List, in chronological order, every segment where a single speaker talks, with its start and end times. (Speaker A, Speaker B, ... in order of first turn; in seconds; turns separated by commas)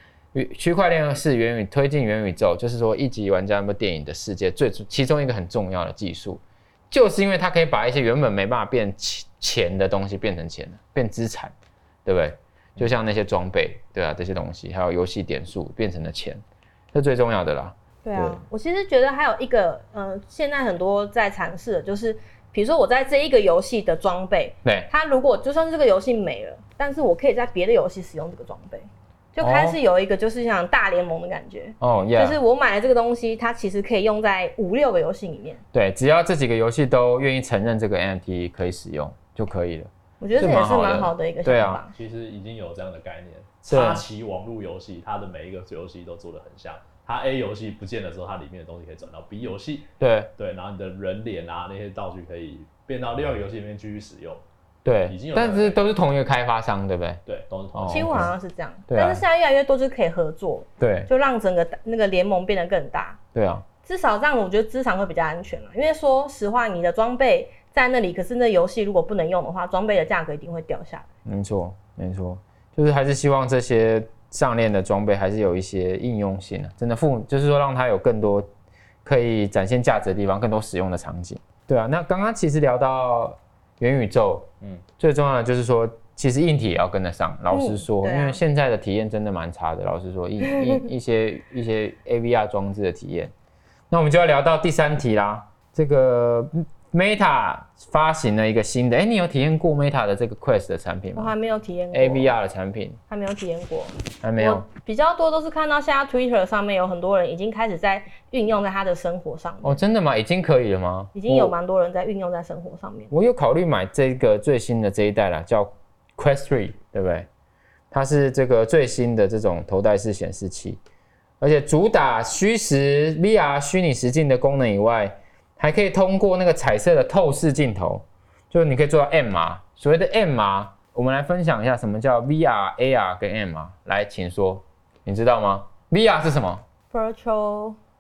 Speaker A: 0.3-11.5, Speaker A: 12.1-16.4, Speaker A: 16.9-18.4, Speaker B: 18.0-35.6, Speaker A: 29.4-29.8, Speaker A: 31.8-32.4, Speaker A: 35.7-41.8, Speaker B: 40.2-41.9, Speaker C: 41.9-54.4, Speaker A: 43.7-44.0, Speaker A: 50.0-50.3, Speaker A: 54.9-57.2, Speaker C: 55.1-55.9, Speaker C: 57.3-58.3, Speaker A: 57.7-58.3, Speaker B: 57.9-63.2, Speaker A: 58.9-59.2, Speaker A: 60.8-61.1, Speaker A: 63.4-63.6, Speaker B: 63.8-71.1, Speaker A: 71.2-78.5, Speaker A: 79.0-84.5, Speaker A: 85.0-93.3, Speaker B: 87.5-88.4, Speaker A: 93.9-101.3, Speaker B: 101.2-102.3, Speaker A: 101.9-103.0, Speaker B: 103.1-109.8, Speaker A: 104.2-104.7, Speaker A: 109.6-111.5, Speaker B: 111.2-113.1, Speaker A: 113.1-117.3, Speaker A: 117.9-120.8, Speaker A: 121.4-136.6, Speaker B: 136.9-137.8